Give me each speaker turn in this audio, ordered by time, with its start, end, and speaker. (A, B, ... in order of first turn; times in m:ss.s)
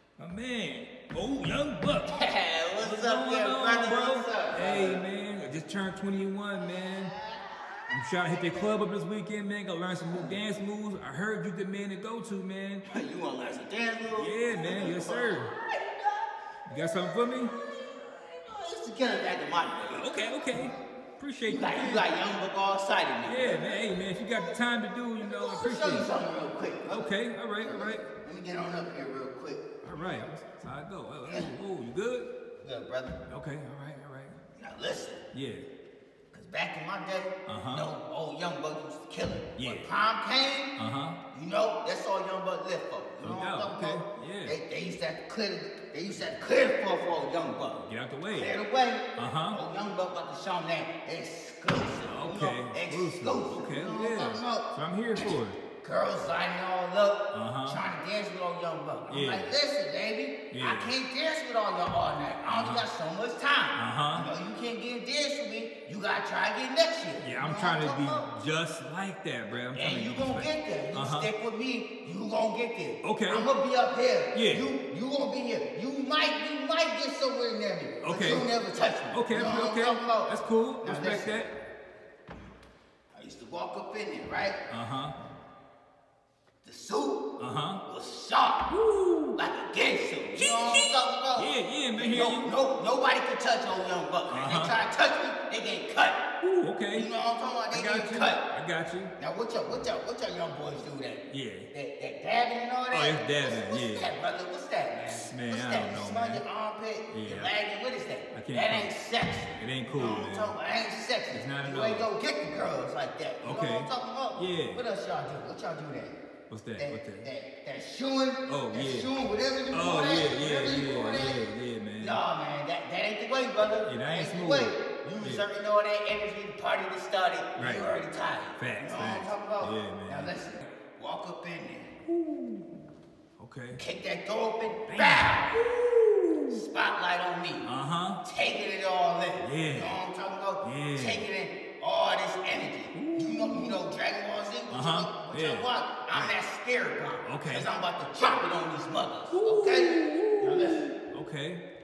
0:00.2-0:02.2 A
0:02.0-0:05.0 B
0:02.8-0:07.1 A
0:06.6-0:08.7 B
0:07.9-0:12.9 A
0:10.1-0:10.4 B
0:12.9-0:16.3 B
0:14.1-0:15.5 A
0:16.7-0:17.5 A
0:17.0-0:20.0 B
0:19.9-0:22.1 A
0:21.5-0:23.8 B
0:23.2-0:26.1 A
0:25.2-0:30.3 B
0:26.9-0:28.0 A
0:29.8-0:32.3 A
0:31.2-0:31.5 B
0:32.6-0:33.2 B
0:33.3-0:34.4 A
0:34.6-0:35.2 B
0:35.3-0:35.6 A
0:36.3-0:40.8 B
0:37.5-0:37.9 A
0:39.6-0:39.9 A
0:40.8-0:41.2 A
0:41.3-1:08.3 B
0:43.2-0:44.6 A
0:47.8-0:48.6 A
0:49.2-0:49.6 A
0:52.1-0:55.6 A
0:57.3-0:57.8 A
0:59.1-0:59.5 A
1:00.5-1:00.9 A
1:02.5-1:02.8 A
1:03.8-1:04.3 A
1:07.2-1:11.3 A
1:09.8-1:21.4 B
1:13.0-1:13.5 A
1:14.3-1:14.7 A
1:18.0-1:18.5 A
1:19.1-1:21.5 A
1:23.1-1:24.6 B
1:24.7-1:25.1 A
1:26.6-1:27.2 B
1:27.4-1:27.8 A
1:27.9-1:28.7 B
1:28.7-1:29.4 A
1:29.4-1:36.2 B
1:30.4-1:32.5 A
1:34.3-1:34.7 A
1:36.4-1:37.1 A
1:36.9-1:38.4 B
1:37.7-1:39.1 A
1:39.2-1:56.2 B
1:41.3-1:41.7 A
1:42.9-1:44.1 A
1:45.1-1:46.4 A
1:47.1-1:47.5 A
1:48.3-1:48.9 A
1:49.6-1:50.5 A
1:51.3-1:52.1 A
1:53.4-1:54.8 A
1:56.5-1:57.3 A
1:56.8-2:01.4 B
1:58.5-1:59.1 A
1:59.7-2:02.2 A
2:02.0-2:11.9 B
2:03.8-2:05.4 A
2:07.6-2:07.9 A
2:08.6-2:10.3 A
2:12.1-2:12.7 A
2:13.4-2:13.8 A
2:13.8-2:15.6 B
2:14.9-2:16.6 A
2:16.5-2:17.7 B
2:17.6-2:18.2 A
2:18.2-2:30.9 B
2:19.4-2:20.0 A
2:20.6-2:21.2 A
2:22.9-2:23.8 A
2:24.7-2:26.4 A
2:27.2-2:27.7 A
2:29.3-2:31.6 A